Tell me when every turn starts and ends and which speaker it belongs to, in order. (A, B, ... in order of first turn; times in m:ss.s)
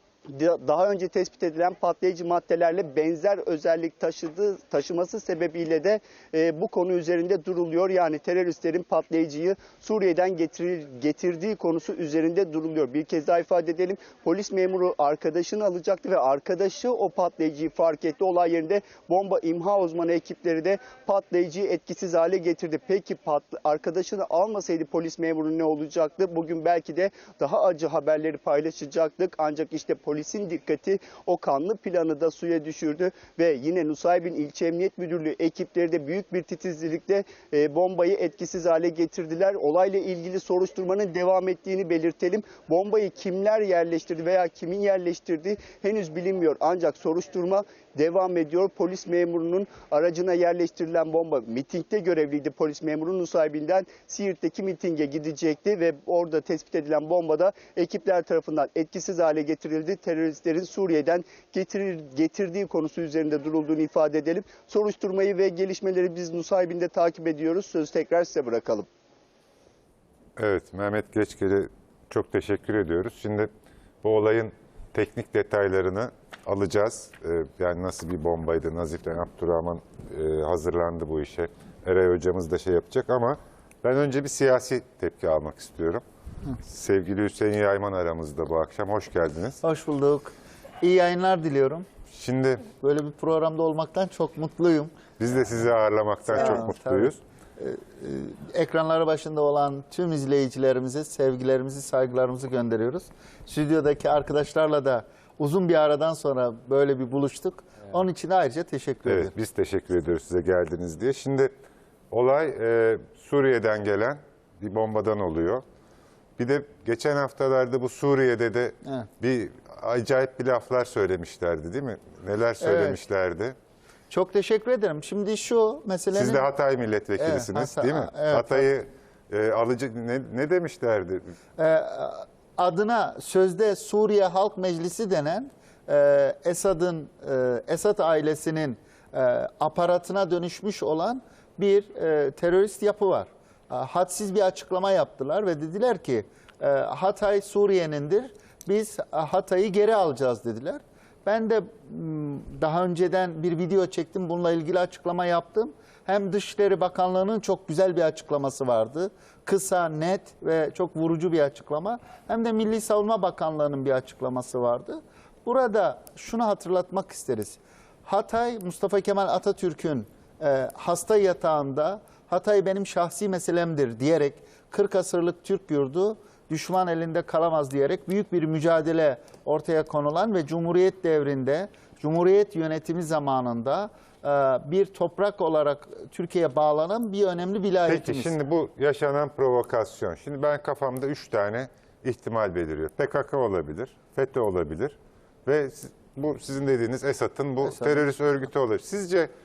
0:00.3-1:08.9 A
1:10.4-1:13.5 B
1:14.0-1:26.0 B
1:26.7-1:29.6 B
1:29.6-1:31.8 C
1:32.1-1:32.7 B
1:32.7-1:35.0 C
1:35.2-1:37.2 B
1:36.3-1:49.3 C
1:49.1-1:51.5 B
1:52.1-1:55.6 B
1:56.4-2:03.6 B
2:02.6-2:03.0 C
2:04.1-2:06.5 C
2:06.1-2:11.2 B
2:07.2-2:08.7 C
2:11.6-3:08.4 C
3:07.9-3:19.3 B
3:17.7-3:18.0 C